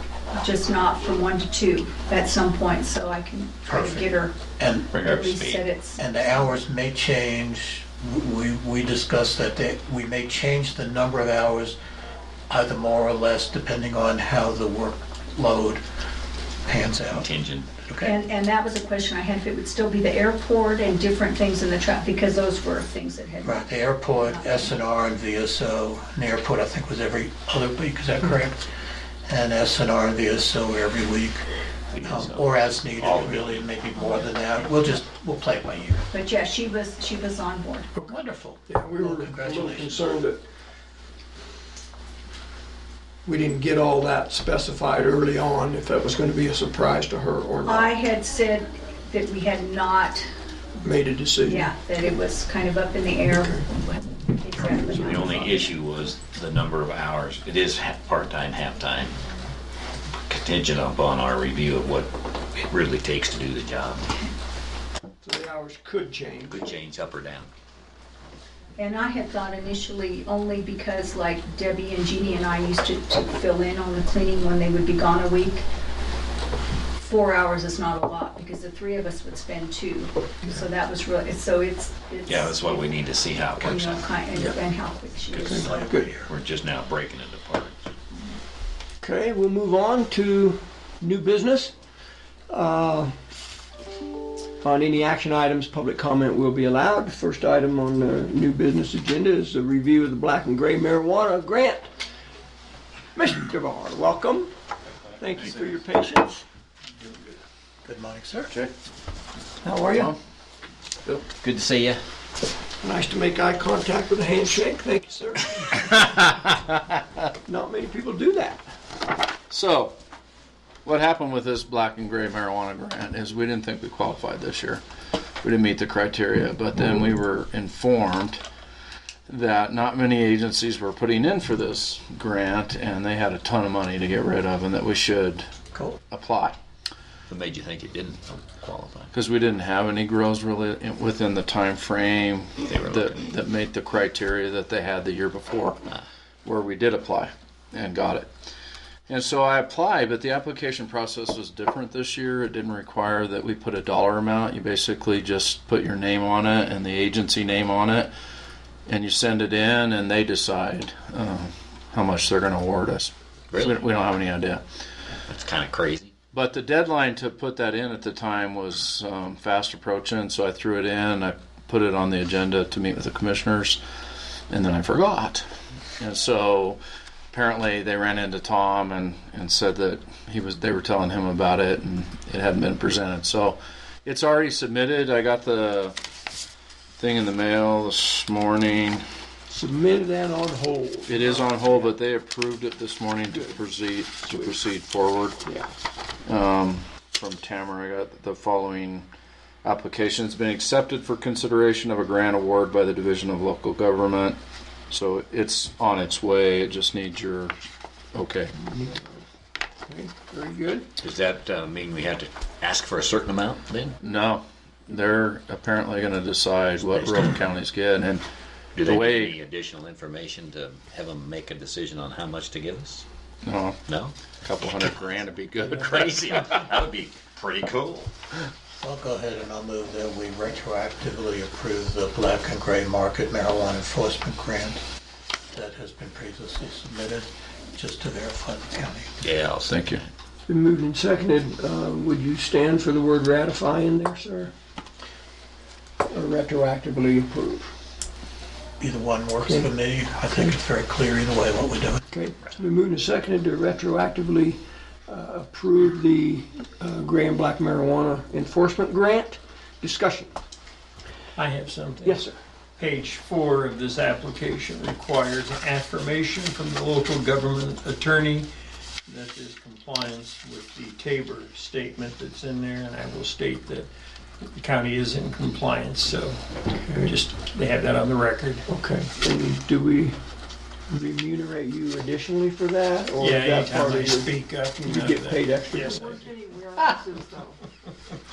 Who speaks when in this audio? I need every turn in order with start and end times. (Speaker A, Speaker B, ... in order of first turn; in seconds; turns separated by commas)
Speaker A: 0.3-4.3, Speaker B: 3.7-4.9, Speaker C: 4.9-5.7, Speaker A: 4.9-6.0, Speaker B: 6.0-11.8, Speaker B: 12.5-15.8, Speaker B: 16.7-17.3, Speaker C: 17.1-17.7, Speaker B: 17.9-18.1, Speaker A: 18.0-24.7, Speaker B: 23.4-28.7, Speaker B: 29.3-31.4, Speaker C: 31.9-33.7, Speaker B: 32.0-36.0, Speaker A: 36.1-37.9, Speaker B: 38.0-40.2, Speaker D: 38.7-40.4, Speaker D: 43.2-47.9, Speaker A: 47.6-50.3, Speaker D: 50.8-51.7, Speaker A: 51.4-55.6, Speaker C: 54.9-59.2, Speaker D: 55.2-55.5, Speaker C: 60.3-64.1, Speaker D: 65.2-66.7, Speaker C: 66.5-67.5, Speaker A: 68.8-75.6, Speaker A: 77.0-85.8, Speaker C: 82.3-84.6, Speaker B: 85.3-86.3, Speaker D: 85.5-86.1, Speaker C: 86.2-87.8, Speaker D: 89.0-91.8, Speaker D: 92.5-93.1, Speaker D: 94.6-101.9, Speaker D: 103.2-104.5, Speaker D: 105.2-106.5, Speaker B: 107.8-108.5, Speaker D: 109.6-110.2, Speaker C: 111.4-112.0, Speaker D: 112.8-116.0, Speaker D: 117.5-118.7, Speaker E: 119.5-120.0, Speaker E: 120.8-124.8, Speaker E: 125.4-128.4, Speaker E: 129.3-135.5, Speaker E: 136.1-136.6, Speaker C: 137.3-139.1, Speaker E: 139.1-145.8, Speaker C: 142.7-143.2, Speaker E: 146.4-148.3, Speaker E: 149.1-158.1, Speaker E: 158.9-164.6, Speaker C: 163.5-163.8, Speaker C: 165.3-166.1, Speaker E: 166.3-173.8, Speaker E: 174.5-175.4, Speaker E: 176.0-176.8, Speaker E: 177.3-185.9, Speaker E: 187.0-189.0, Speaker D: 189.5-191.9, Speaker E: 191.1-195.4, Speaker D: 195.4-195.7, Speaker E: 196.3-199.1, Speaker E: 199.6-204.4, Speaker E: 204.9-207.5, Speaker E: 208.1-208.5, Speaker D: 208.6-209.2, Speaker D: 209.9-210.9, Speaker C: 211.0-214.0, Speaker E: 214.0-218.2, Speaker C: 218.8-223.1, Speaker E: 218.8-219.3, Speaker E: 223.4-223.8, Speaker C: 223.9-224.2, Speaker E: 224.4-226.2, Speaker C: 225.6-228.1, Speaker B: 228.8-234.8, Speaker B: 235.5-239.1, Speaker C: 239.2-239.9, Speaker E: 239.7-240.0, Speaker D: 240.5-244.5, Speaker D: 246.1-247.7, Speaker B: 248.8-252.0, Speaker D: 249.4-249.7, Speaker D: 250.3-250.6, Speaker D: 252.1-260.4, Speaker F: 261.4-268.5, Speaker D: 262.0-262.4, Speaker F: 269.1-273.9, Speaker F: 274.4-278.7, Speaker D: 276.8-277.1, Speaker D: 278.7-280.2, Speaker D: 280.9-287.6, Speaker F: 283.2-286.3